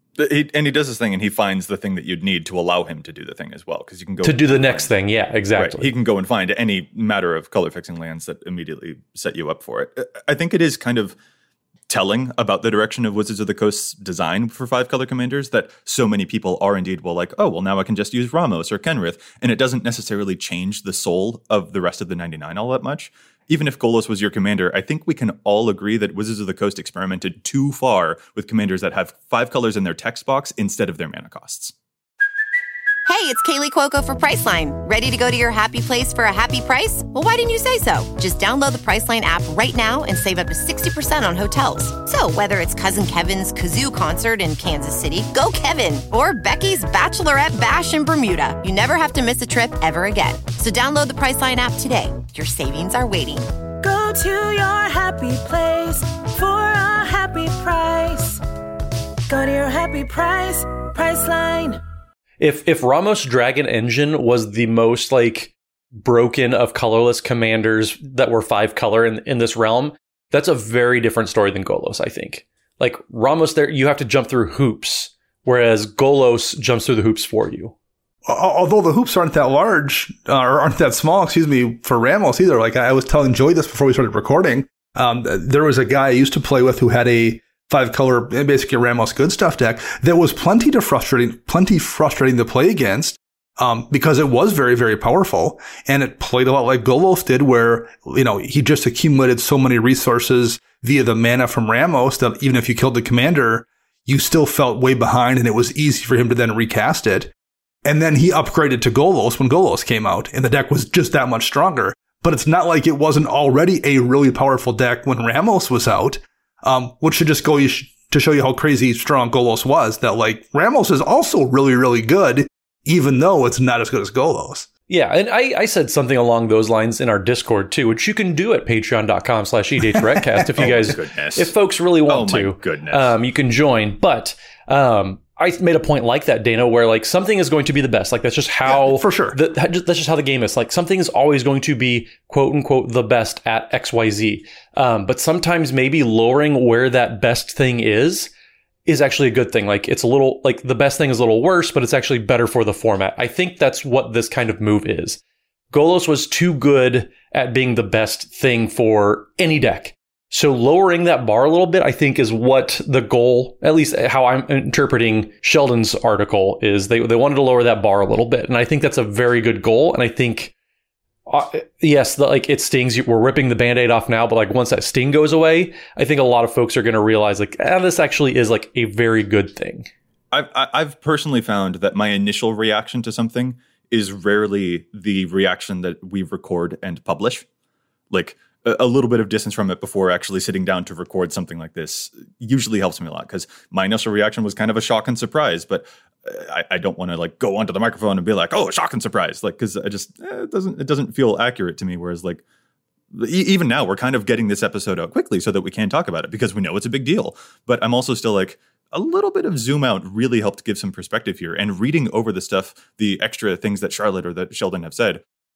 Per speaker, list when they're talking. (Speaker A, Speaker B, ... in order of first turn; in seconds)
Speaker A: 0.2-4.9, 5.5-11.2, 11.9-31.7, 130.6-131.5, 132.1-133.1, 180.3-187.5, 188.1-202.4, 203.1-215.2
Speaker B: 4.2-5.9, 62.4-77.8, 124.9-148.3, 148.9-155.2, 155.7-170.5, 171.3-179.9
Speaker C: 33.1-53.5
Speaker D: 53.8-58.4, 59.3-61.8
Speaker E: 78.3-107.3, 107.8-124.7, 129.9-130.7, 138.7-139.4